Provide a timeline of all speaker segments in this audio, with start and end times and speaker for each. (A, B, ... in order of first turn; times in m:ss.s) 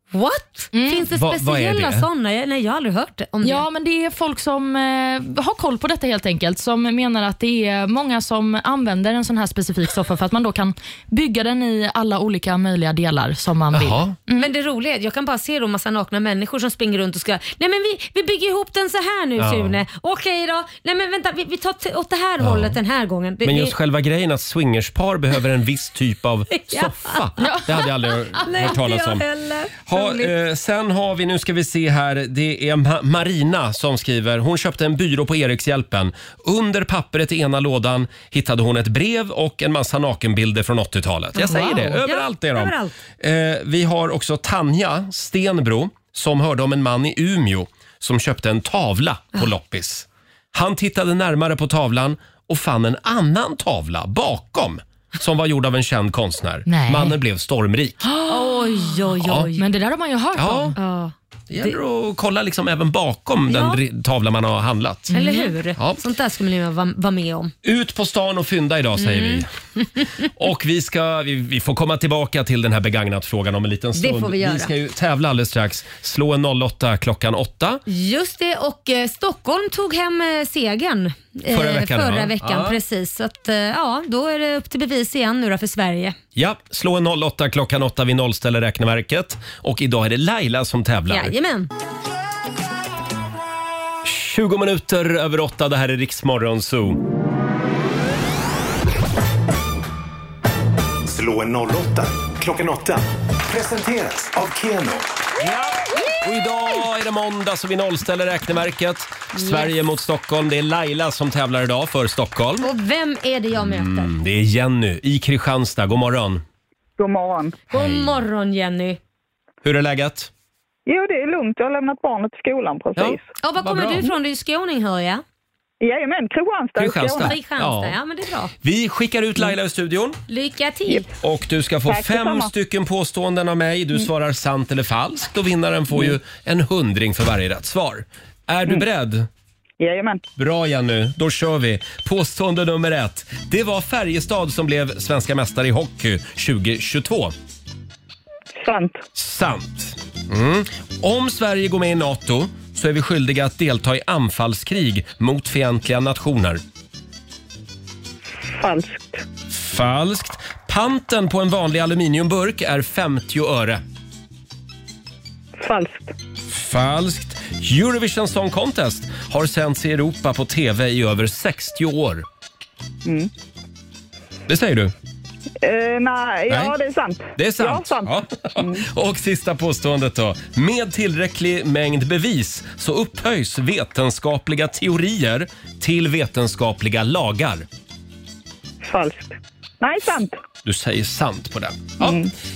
0:00.1-0:03.6 A
0:00.7-0:01.1 B
0:01.1-0:02.1 C
0:03.4-0:14.5 B
0:13.7-0:14.2 C
0:14.4-0:23.8 A
0:19.4-0:19.8 C
0:22.4-0:22.8 C
0:23.4-0:29.2 C
0:26.6-0:27.6 A
0:27.4-0:27.8 B
0:28.4-0:30.3 A
0:29.9-0:58.0 C
0:41.4-0:42.9 A
0:56.7-0:57.2 B
0:58.0-0:58.9 B
0:58.3-0:59.6 A
0:59.2-0:59.5 C
0:59.6-1:00.8 B
1:00.4-1:00.8 C
1:00.8-1:01.8 A
1:01.5-1:05.2 C
1:03.5-1:03.8 A
1:05.1-1:05.5 B
1:05.1-1:07.5 A
1:05.8-1:06.0 C
1:07.6-1:09.5 C
1:09.0-1:09.4 A
1:10.2-1:17.8 C
1:14.0-1:14.7 A
1:17.9-1:26.2 A
1:21.5-1:22.8 C
1:26.4-1:31.3 C
1:31.1-1:31.7 A
1:34.0-1:37.0 C
1:41.1-1:45.0 D
1:45.4-1:52.7 C
1:49.3-1:49.7 A
1:52.6-1:54.1 A
1:53.6-1:56.4 C
1:57.0-1:57.6 E
1:57.7-1:59.0 A
1:57.7-1:58.2 C
1:59.6-2:00.3 C
2:00.9-2:03.2 E
2:03.0-2:04.1 C
2:03.4-2:05.2 A
2:05.8-2:07.4 E
2:06.8-2:08.0 C
2:07.2-2:08.5 A
2:08.6-2:10.2 C
2:10.3-2:11.1 A
2:11.2-2:19.3 C
2:11.8-2:12.5 E
2:19.8-2:20.2 E
2:20.4-2:27.3 C
2:28.6-2:29.0 E
2:29.2-2:36.6 C
2:38.4-2:39.2 E
2:39.5-2:43.8 C
2:45.6-2:46.1 E
2:46.5-2:52.3 C
2:53.0-2:53.3 E
2:54.5-2:54.9 C
2:55.6-2:58.9 E
2:57.4-3:07.7 C
3:08.8-3:10.4 E
3:10.6-3:12.2 C
3:12.0-3:12.3 E